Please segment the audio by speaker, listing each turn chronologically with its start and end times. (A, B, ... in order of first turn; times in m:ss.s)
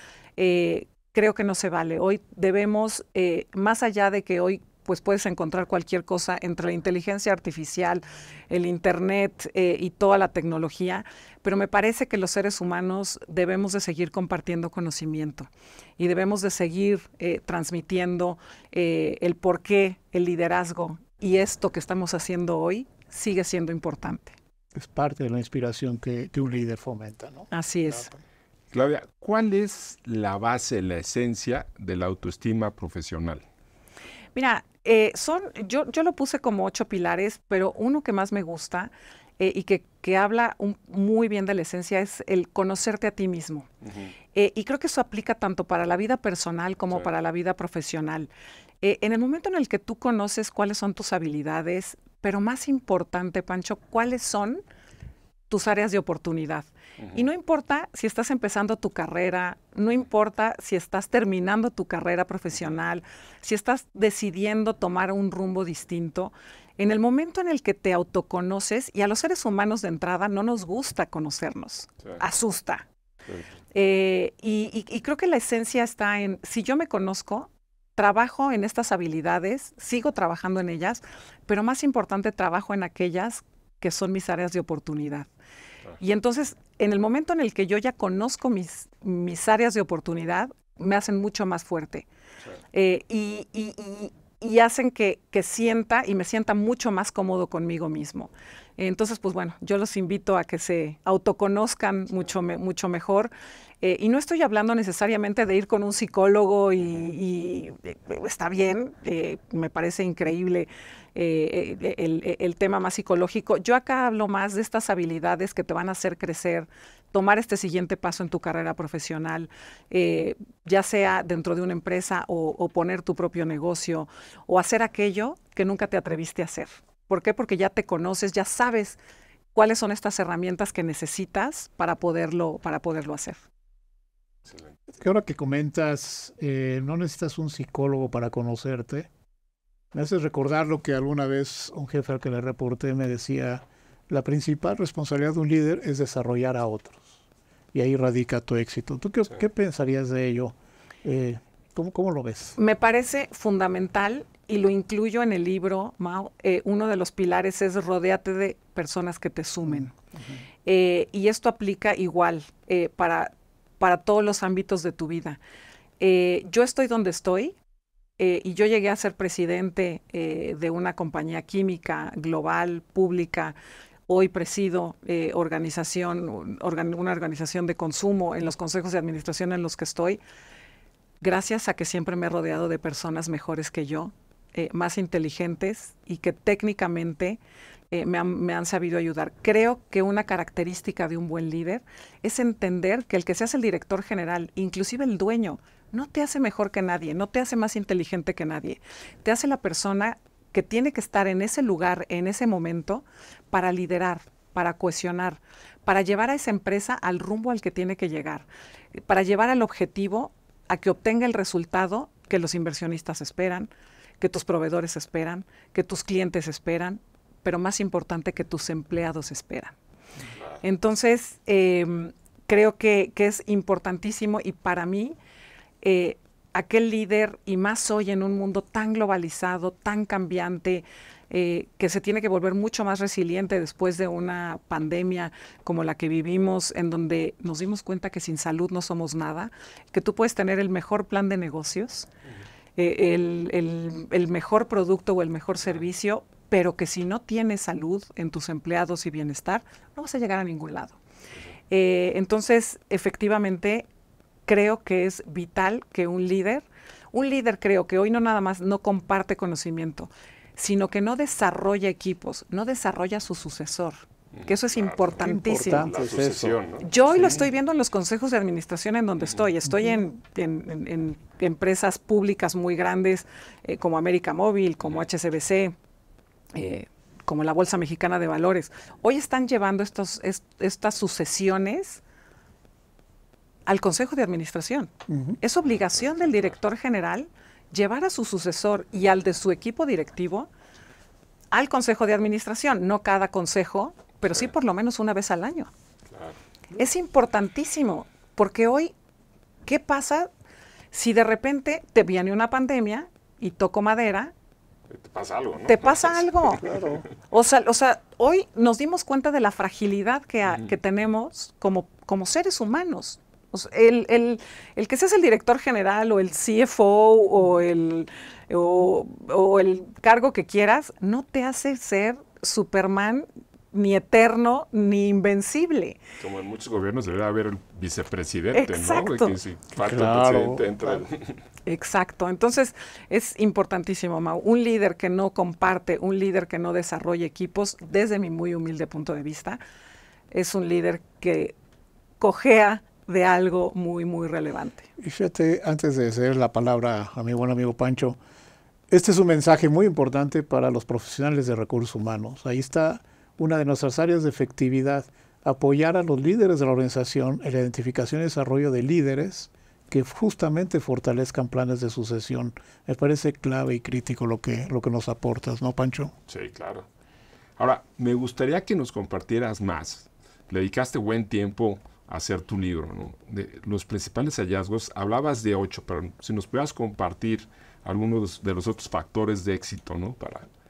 0:00.4-0:24.4 A
0:24.7-0:28.0 B
0:27.5-0:28.1 A
0:28.7-0:33.4 C
0:34.3-0:43.7 A
0:43.8-0:44.1 C
0:44.3-0:48.3 A
0:48.8-0:54.6 A
0:55.5-1:12.8 A
0:57.0-0:57.2 C
1:13.7-1:25.3 A
1:26.0-1:32.1 A
1:32.7-2:09.0 A
2:09.5-2:13.4 A
2:15.0-2:19.1 B
2:19.9-2:27.1 B
2:27.7-2:32.6 B
2:32.6-2:39.9 A
2:40.6-2:45.4 A
2:46.0-2:47.6 A
2:48.2-2:53.6 A
2:54.1-3:00.2 A
3:01.2-3:07.4 A
3:07.9-3:39.7 A
3:40.6-3:45.2 A
3:45.8-4:02.1 A
4:02.8-4:11.0 A
4:11.7-4:13.9 A
4:14.4-4:25.9 A
4:24.4-4:27.4 C
4:25.2-4:26.6 B
4:26.8-4:35.7 A
4:36.5-4:42.0 A
4:43.6-4:50.5 A
4:45.1-4:45.4 B
4:46.1-4:46.5 C
4:51.5-4:55.7 A
4:56.1-4:56.4 C
4:56.7-4:58.9 A
4:59.6-5:00.3 A
5:00.9-5:04.3 A
5:04.9-5:07.0 C
5:05.7-5:06.7 A
5:06.6-5:07.0 B
5:07.3-5:26.0 A
5:26.2-5:31.4 C
5:28.5-5:29.4 A
5:29.8-5:31.0 B
5:31.6-5:39.6 A
5:40.3-5:41.5 A
5:42.2-5:44.9 A
5:45.0-5:48.2 B
5:48.9-6:06.1 B
6:06.3-6:06.9 C
6:07.6-6:20.5 C